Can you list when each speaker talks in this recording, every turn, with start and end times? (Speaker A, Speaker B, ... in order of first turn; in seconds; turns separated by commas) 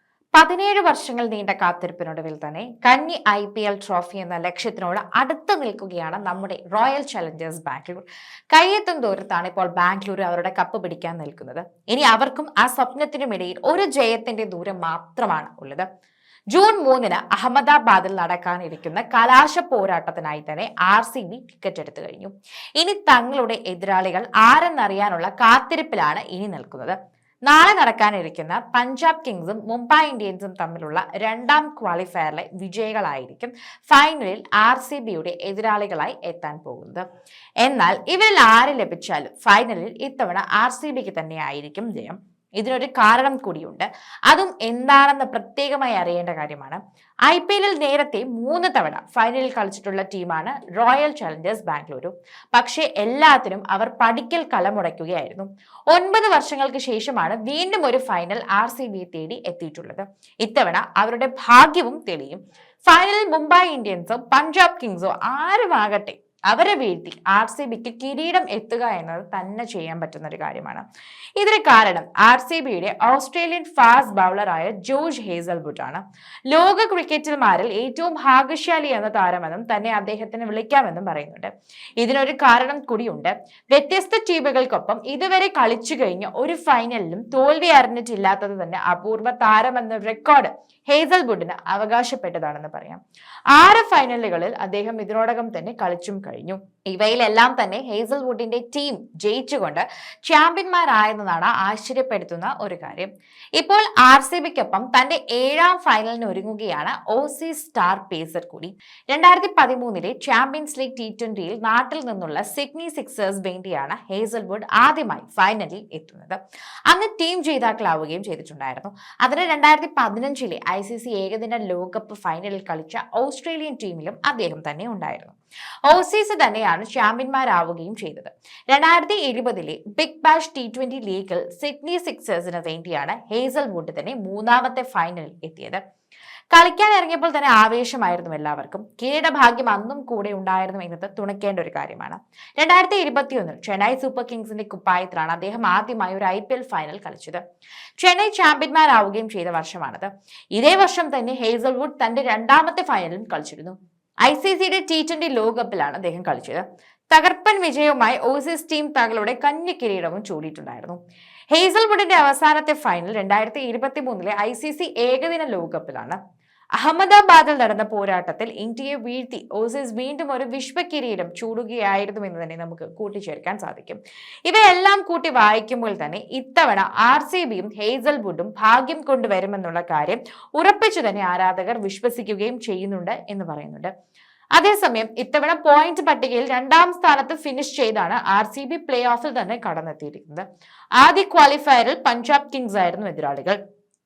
Speaker A: 0.3-15.8, Speaker A: 16.5-26.9, Speaker A: 27.5-37.0, Speaker A: 37.6-70.8, Speaker A: 71.4-93.0, Speaker A: 93.5-125.3, Speaker A: 125.9-135.8, Speaker A: 136.5-147.4, Speaker A: 148.0-161.0, Speaker A: 161.5-166.2, Speaker A: 166.8-183.9, Speaker A: 184.6-190.4, Speaker A: 191.0-193.6